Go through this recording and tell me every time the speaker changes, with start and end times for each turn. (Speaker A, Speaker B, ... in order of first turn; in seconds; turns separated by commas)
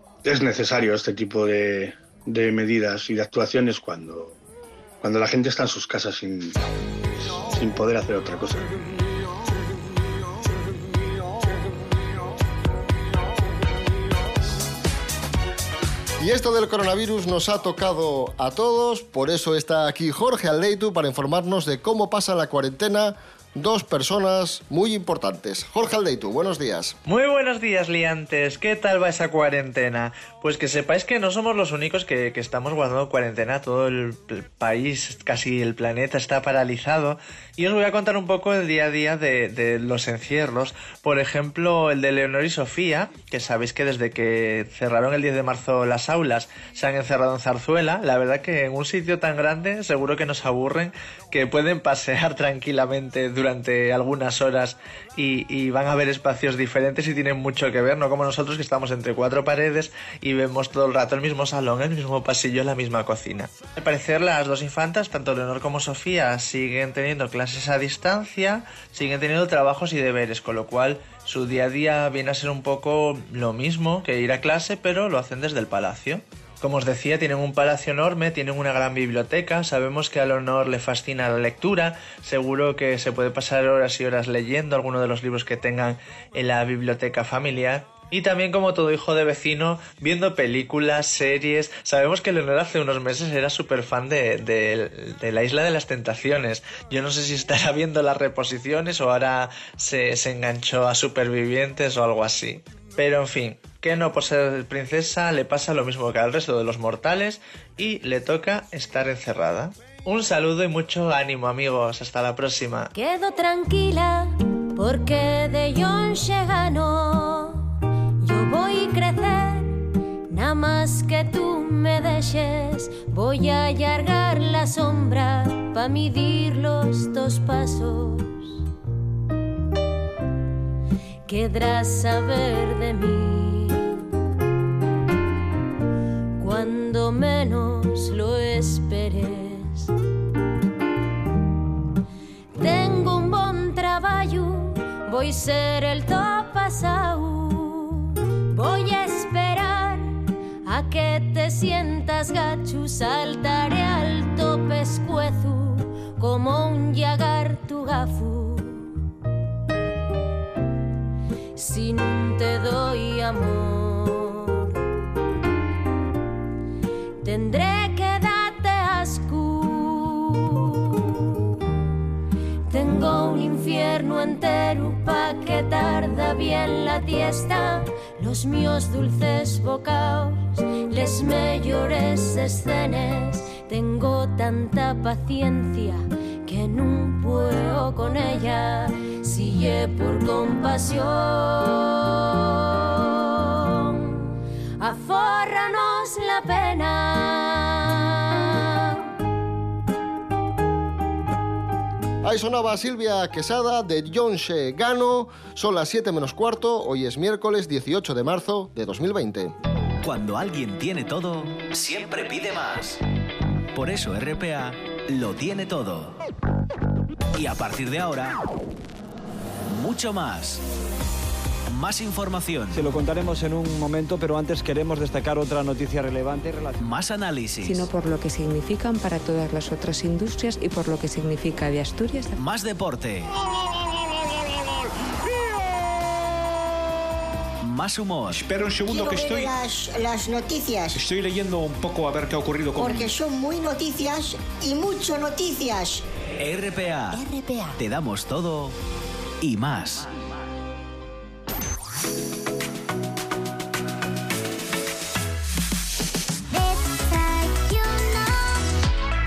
Speaker A: 0.2-4.4, Speaker A: 5.0-6.6, Speaker A: 7.4-8.8, Speaker B: 16.2-26.9, Speaker C: 27.1-112.9, Speaker D: 112.9-117.7, Speaker D: 118.2-119.8, Speaker D: 120.3-128.6, Speaker D: 131.2-134.0, Speaker D: 136.4-139.9, Speaker D: 142.5-150.1, Speaker D: 150.7-159.0, Speaker D: 161.5-164.7, Speaker D: 167.2-171.5, Speaker D: 172.7-199.0, Speaker B: 202.2-209.5, Speaker E: 210.0-213.0, Speaker E: 213.7-216.2, Speaker E: 217.3-218.4, Speaker E: 219.7-220.6, Speaker E: 221.7-222.9, Speaker F: 222.7-226.8, Speaker E: 226.8-227.9, Speaker G: 227.6-232.4, Speaker E: 232.4-233.3, Speaker E: 237.6-238.5, Speaker H: 238.3-239.4, Speaker I: 238.8-241.0, Speaker H: 241.0-243.0, Speaker I: 242.7-246.0, Speaker E: 246.4-247.2, Speaker I: 247.2-247.7, Speaker E: 247.8-248.8, Speaker E: 249.4-250.1, Speaker I: 256.5-258.3